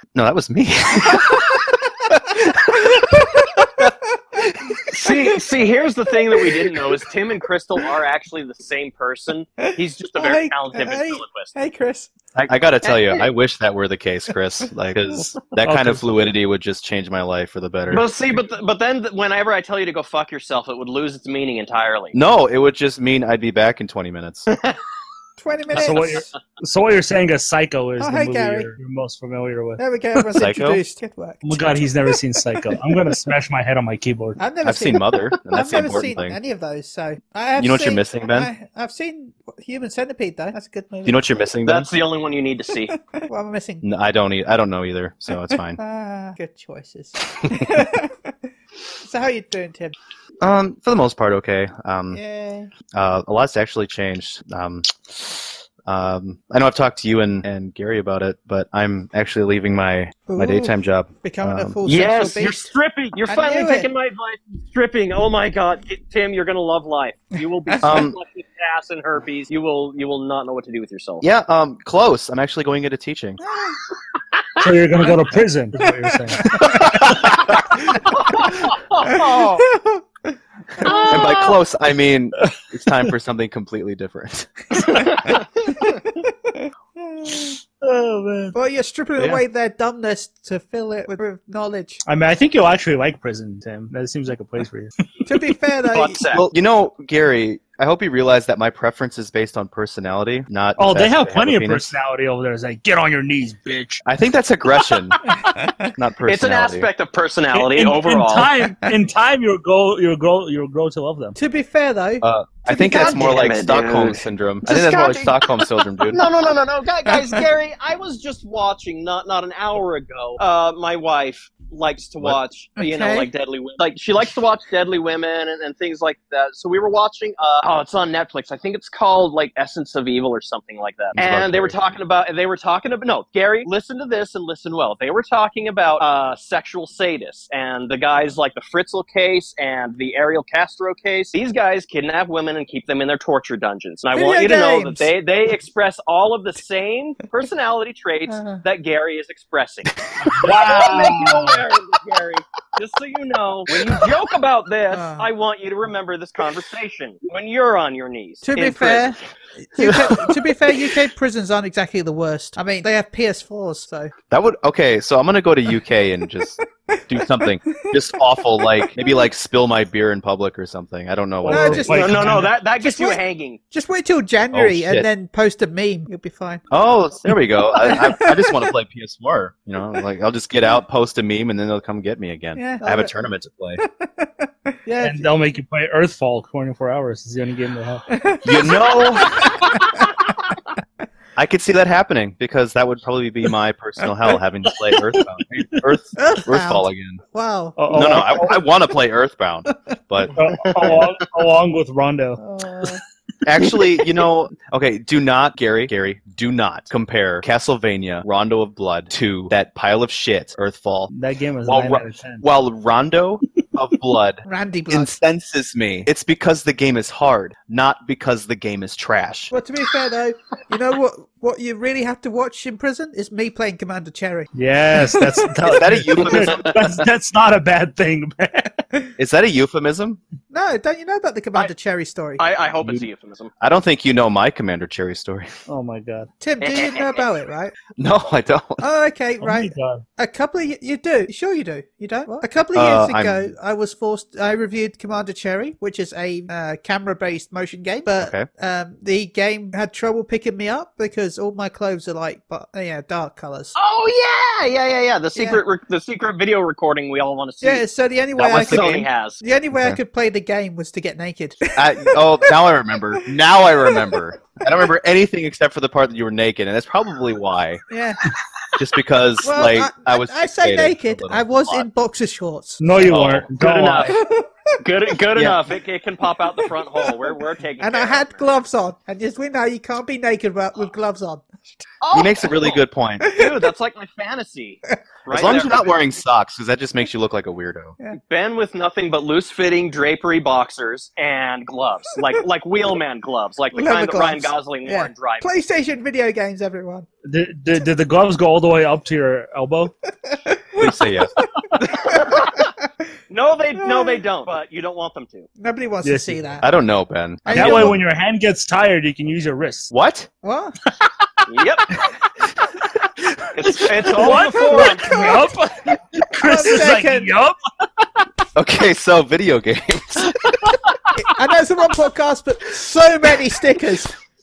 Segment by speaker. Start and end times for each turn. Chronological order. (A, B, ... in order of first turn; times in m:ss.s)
0:00.1-0:01.6 A
0:02.2-0:03.3 A
0:02.9-0:05.3 B
0:04.9-0:11.5 C
0:06.2-0:06.8 B
0:09.6-0:12.1 B
0:12.3-0:13.3 C
0:12.5-0:18.0 A
0:15.6-0:16.0 D
0:17.9-0:22.2 C
0:22.1-0:24.5 A
0:25.4-0:26.3 B
0:25.7-0:29.8 D
0:28.0-0:28.7 B
0:29.8-0:32.1 B
0:30.4-0:30.8 A
0:31.4-0:34.4 D
0:34.4-0:41.2 B
0:34.6-0:36.4 A
0:37.6-0:38.5 A
0:41.0-0:41.9 A
0:41.6-0:43.0 C
0:43.1-0:43.8 B
0:43.8-0:45.8 A
0:45.7-0:48.3 B
0:49.0-0:49.9 B
0:50.4-0:52.2 A
0:52.1-0:52.7 B
0:52.9-1:01.8 A
1:00.3-1:02.7 B
1:01.8-1:11.2 C
1:03.3-1:03.9 B
1:07.6-1:08.0 B
1:07.8-1:08.2 A
1:11.2-1:13.4 A
1:13.4-1:13.8 B
1:14.6-1:17.0 D
1:16.0-1:17.2 B
1:17.2-1:19.7 C
1:17.7-1:21.4 B
1:20.8-1:21.6 C
1:21.0-1:25.0 A
1:24.9-1:25.4 C
1:26.5-1:27.6 B
1:27.8-1:28.5 D
1:28.5-1:32.0 B
1:32.0-1:35.0 D
1:35.2-1:36.2 B
1:35.9-1:36.4 C
1:36.3-1:41.9 A
1:40.8-1:44.0 D
1:44.0-1:45.2 A
1:45.3-1:45.9 B
1:45.9-1:46.9 A
1:46.2-1:48.5 C
1:47.5-1:51.4 D
1:51.4-1:53.5 B
1:52.2-1:56.2 A
1:52.7-2:39.1 C
1:57.1-1:57.3 B
2:02.8-2:03.3 B
2:11.1-2:11.9 A
2:24.1-2:25.1 B
2:28.3-2:28.6 B
2:30.4-2:31.6 D
2:34.9-2:35.3 B
2:38.4-2:44.1 B
2:39.8-2:40.4 A
2:44.3-2:46.6 A
2:46.9-2:48.0 B
2:47.1-2:51.9 A
2:48.6-2:48.8 B
2:51.4-2:52.5 D
2:51.5-2:56.6 B
2:51.9-2:53.6 C
2:54.5-2:55.1 A
2:56.7-3:03.8 A
2:57.8-2:58.7 B
3:02.6-3:03.1 B
3:03.8-3:05.3 B
3:05.0-3:08.2 D
3:08.1-3:10.3 B
3:08.4-3:09.6 A
3:11.4-3:17.2 A
3:16.2-3:18.6 B
3:17.8-3:18.6 D
3:17.9-3:21.1 A
3:20.3-3:22.9 D
3:22.4-3:23.0 B
3:23.4-3:31.1 A
3:31.1-3:32.4 D
3:31.6-3:39.5 A
3:34.4-3:35.1 B
3:39.5-3:45.5 B
3:44.5-3:48.8 D
3:45.6-3:47.1 A
3:49.2-3:50.2 A
3:50.5-3:52.4 B
3:52.4-3:53.5 C
3:53.6-3:55.5 A
3:55.7-3:56.3 D
3:56.4-3:57.8 B
3:56.6-3:57.3 C
3:58.0-3:58.8 A
3:58.8-4:13.7 B
3:59.4-4:00.0 D
4:02.7-4:03.5 A
4:08.2-4:08.5 A
4:13.8-4:17.9 C
4:15.3-4:15.6 B
4:17.6-4:22.6 B
4:18.4-4:18.9 A
4:18.5-4:19.4 C
4:21.7-4:27.8 A
4:23.2-4:24.2 B
4:27.9-4:28.2 B
4:28.8-4:31.9 A
4:29.4-4:32.9 B
4:32.8-4:34.2 D
4:33.0-4:34.2 C
4:34.1-4:34.8 B
4:34.8-4:38.4 C
4:37.0-4:37.3 B
4:37.8-4:41.8 B
4:42.0-4:46.0 C
4:42.1-4:43.4 A
4:43.2-4:43.6 B
4:45.3-4:48.0 A
4:48.1-4:55.5 C
4:53.7-4:57.1 B
4:57.2-4:59.9 D
5:00.2-5:02.8 B
5:00.8-5:01.3 A
5:01.8-5:02.7 C
5:03.3-5:05.5 C
5:03.8-5:04.2 B
5:05.6-5:06.7 B
5:06.0-5:06.6 D
5:06.6-5:08.0 A
5:07.4-5:08.0 B
5:07.5-5:09.9 D
5:09.9-5:10.3 A
5:10.4-5:10.8 B
5:11.5-5:11.9 C
5:13.5-5:15.4 C
5:13.6-5:17.6 D
5:14.0-5:15.5 B
5:16.3-5:17.3 B
5:18.5-5:20.7 A
5:21.1-5:24.1 B